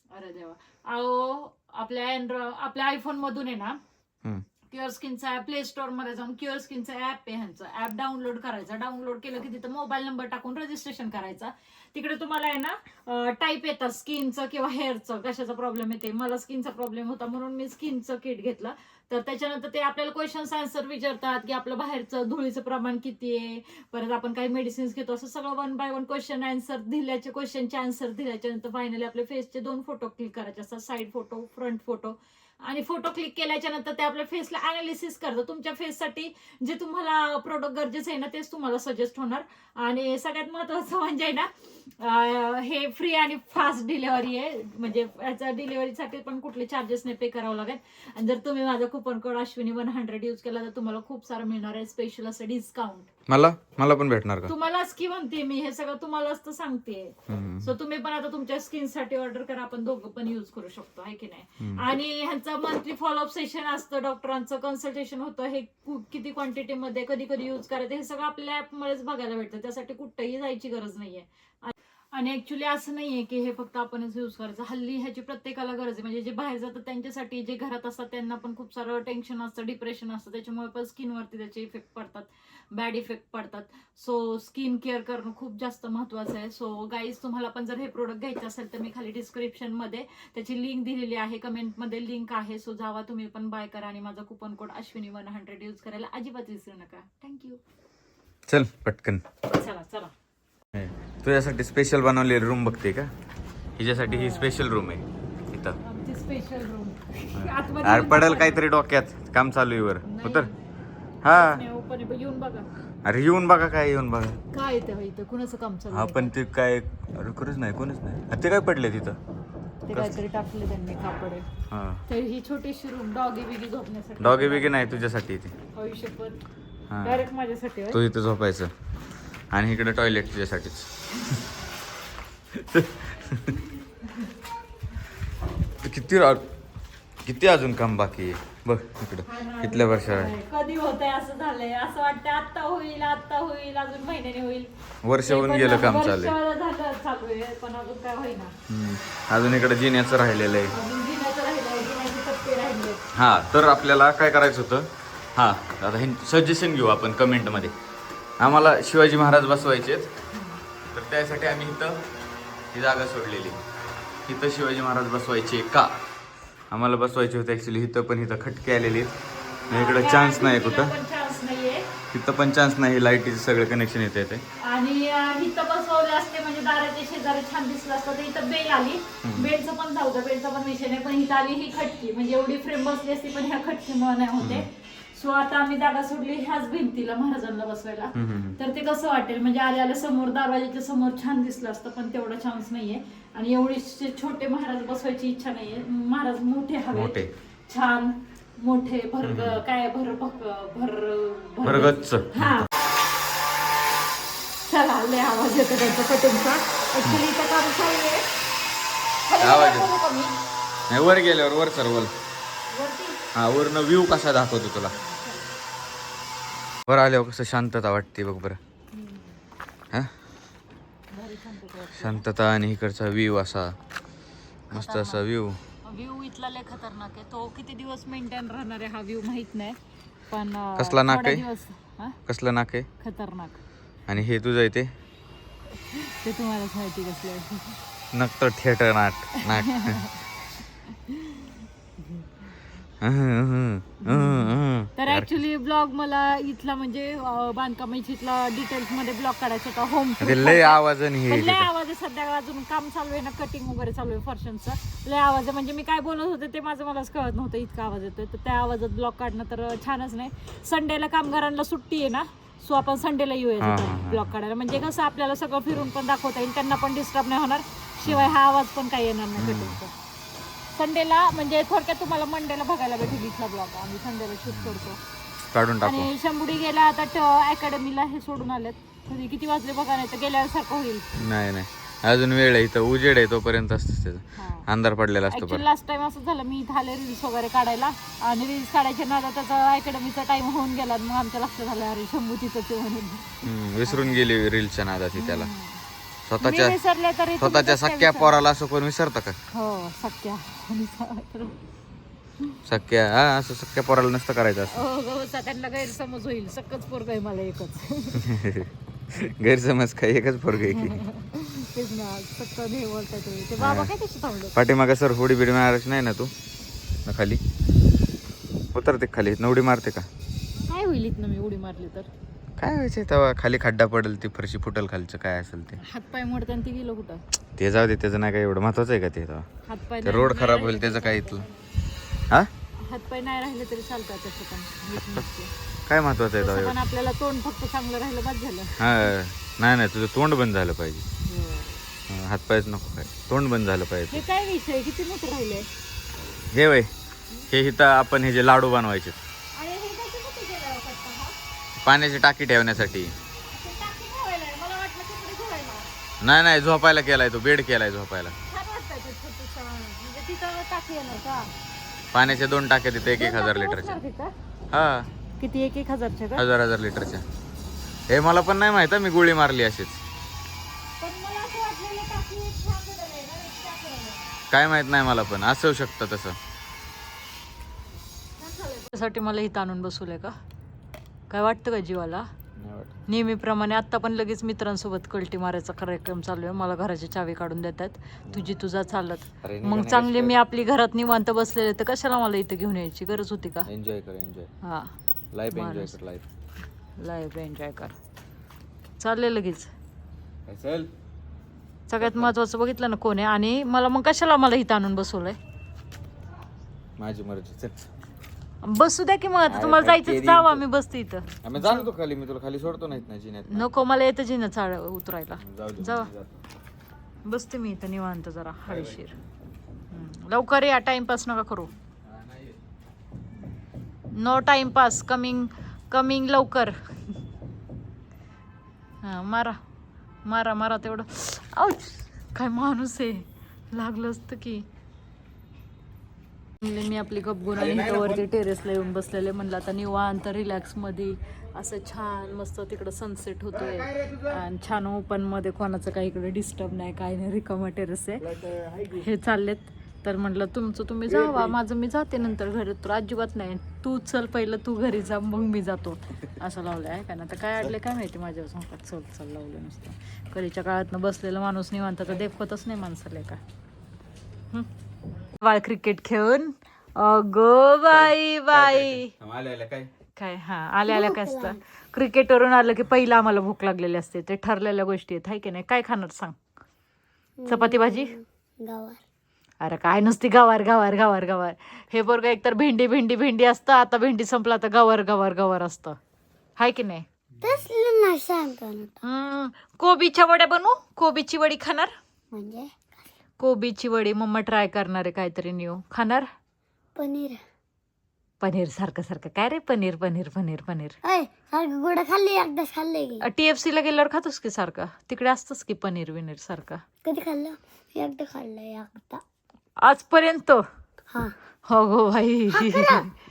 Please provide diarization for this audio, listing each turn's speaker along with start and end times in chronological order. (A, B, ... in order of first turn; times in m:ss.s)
0:00.1-0:03.8 A
0:04.7-0:53.1 A
0:53.3-0:54.5 B
0:54.5-1:37.6 A
0:57.3-0:57.7 B
1:01.6-1:01.9 B
1:38.5-1:39.2 B
1:39.5-1:40.1 A
1:40.7-1:43.1 B
1:43.8-1:45.8 B
1:44.0-1:44.6 A
1:45.8-1:48.6 A
1:47.3-1:50.5 B
1:50.0-1:50.5 A
1:51.2-1:51.6 B
1:51.2-1:52.7 A
1:53.0-1:54.4 B
1:54.5-1:56.3 A
1:55.9-1:59.2 B
1:59.8-2:01.5 A
2:01.7-2:02.0 B
2:02.1-2:05.1 A
2:04.2-2:05.5 B
2:05.7-2:06.4 A
2:06.9-2:07.3 B
2:07.0-2:08.0 A
2:07.9-2:08.7 B
2:09.5-2:10.9 B
2:12.5-2:13.7 B
2:15.8-2:16.4 B
2:17.2-2:20.3 B
2:19.2-2:28.5 A
2:25.0-2:26.4 B
2:28.7-2:30.7 B
2:30.7-2:33.0 A
2:33.1-2:37.7 B
2:38.4-2:40.1 B
2:40.3-2:40.6 A
2:40.9-2:42.0 B
2:42.7-2:43.6 B
2:44.3-2:45.9 B
2:46.7-2:49.1 B
2:49.7-2:50.9 B
2:49.7-2:51.9 A
2:52.1-2:54.4 B
2:54.6-3:22.7 A
2:59.2-2:59.5 B
3:04.4-3:04.6 B
3:08.1-3:08.6 B
3:16.9-3:17.3 B
3:19.2-3:19.6 B
3:21.6-3:22.7 B
3:24.6-3:28.3 A
3:29.3-3:30.3 A
3:29.4-3:29.9 B
3:30.9-3:32.1 B
3:32.7-3:33.3 A
3:33.3-3:34.9 B
3:35.0-3:35.4 A
3:36.9-3:38.6 B
3:38.9-3:39.3 A
3:41.1-3:42.2 A
3:42.0-3:43.8 B
3:44.7-3:45.2 A
3:44.7-3:45.6 B
3:45.8-3:49.8 A
3:50.3-3:52.2 A
3:50.8-3:51.4 B
3:52.3-3:52.9 B
3:53.0-3:53.6 A
3:54.1-3:54.9 B
3:55.9-3:57.8 A
3:58.1-4:00.0 B
3:59.4-4:00.2 A
4:00.8-4:02.3 A
4:03.0-4:05.4 B
4:04.0-4:29.9 A
4:10.2-4:11.7 B
4:23.6-4:24.3 B
4:28.0-4:28.3 B
4:29.4-4:29.8 B
4:30.7-4:35.0 A
4:34.5-4:34.8 B
4:35.5-4:36.1 B
4:35.8-4:41.1 A
4:41.2-4:45.6 B
4:44.4-4:44.6 A
4:45.3-4:54.2 A
4:53.4-4:55.5 B
4:55.1-4:55.8 A
4:56.2-4:56.8 B
4:56.4-4:58.3 A
4:57.4-4:59.4 B
4:59.5-5:01.5 A
5:02.6-5:04.8 B
5:04.7-5:08.3 A
5:08.2-5:11.0 B
5:10.7-5:14.6 A
5:13.6-5:13.9 B
5:14.5-5:16.3 B
5:17.0-5:17.4 B
5:18.7-5:20.1 B
5:20.7-5:22.1 A
5:22.6-5:25.8 B
5:25.8-5:27.2 A
5:27.6-5:29.4 B
5:29.6-5:31.5 A
5:30.0-5:31.4 B
5:32.8-5:35.5 A
5:34.9-5:35.2 B
5:35.9-5:36.8 B
5:36.4-5:39.1 A
5:38.8-5:41.0 B
5:41.2-5:41.8 A
5:42.1-5:44.2 B
5:44.1-5:45.7 A
5:46.5-5:46.9 B
5:47.5-5:49.2 B
5:49.5-5:51.3 A
5:51.8-5:53.1 B
5:53.5-5:55.9 A
5:56.2-5:58.3 B
5:58.5-6:01.5 A
6:02.1-6:04.0 B
6:03.1-6:04.3 A
6:04.7-6:05.1 B
6:05.4-6:06.4 A
6:06.3-6:07.2 B
6:08.1-6:10.0 B
6:11.0-6:14.4 A
6:14.5-6:16.4 B
6:18.4-6:20.3 A
6:21.3-6:22.3 A
6:22.6-6:22.9 B
6:23.1-6:33.7 A
6:29.4-6:30.4 B
6:33.6-6:34.5 B
6:34.6-6:34.9 A
6:35.3-6:36.2 B
6:35.5-6:36.0 A
6:37.0-6:37.9 A
6:39.0-6:39.7 A
6:40.5-6:40.9 B
6:41.9-6:45.4 A
6:42.0-6:42.3 B
6:47.0-6:47.9 B
6:48.6-6:51.9 A
6:49.5-6:50.6 B
6:51.4-6:53.8 B
6:53.5-6:56.1 A
6:55.4-6:56.4 B
6:57.2-6:59.1 A
6:58.7-6:59.0 B
6:59.9-7:01.7 A
7:04.2-7:06.7 A
7:09.0-7:09.6 A
7:10.2-7:14.6 A
7:16.6-7:43.4 A
7:45.4-7:49.1 A
7:47.9-7:49.9 B
7:50.2-7:56.4 A
7:50.8-7:51.6 C
7:57.4-7:59.0 C
7:57.5-7:58.2 A
7:59.6-8:06.0 A
8:06.6-8:07.0 A
8:07.4-8:09.0 C
8:09.0-8:11.9 A
8:12.3-8:13.0 C
8:13.4-8:16.3 A
8:17.0-8:17.4 C
8:18.4-8:21.0 A
8:21.0-8:23.2 C
8:23.2-8:26.8 A
8:27.0-8:29.2 C
8:29.8-8:30.6 A
8:31.7-8:33.1 A
8:32.5-8:33.1 C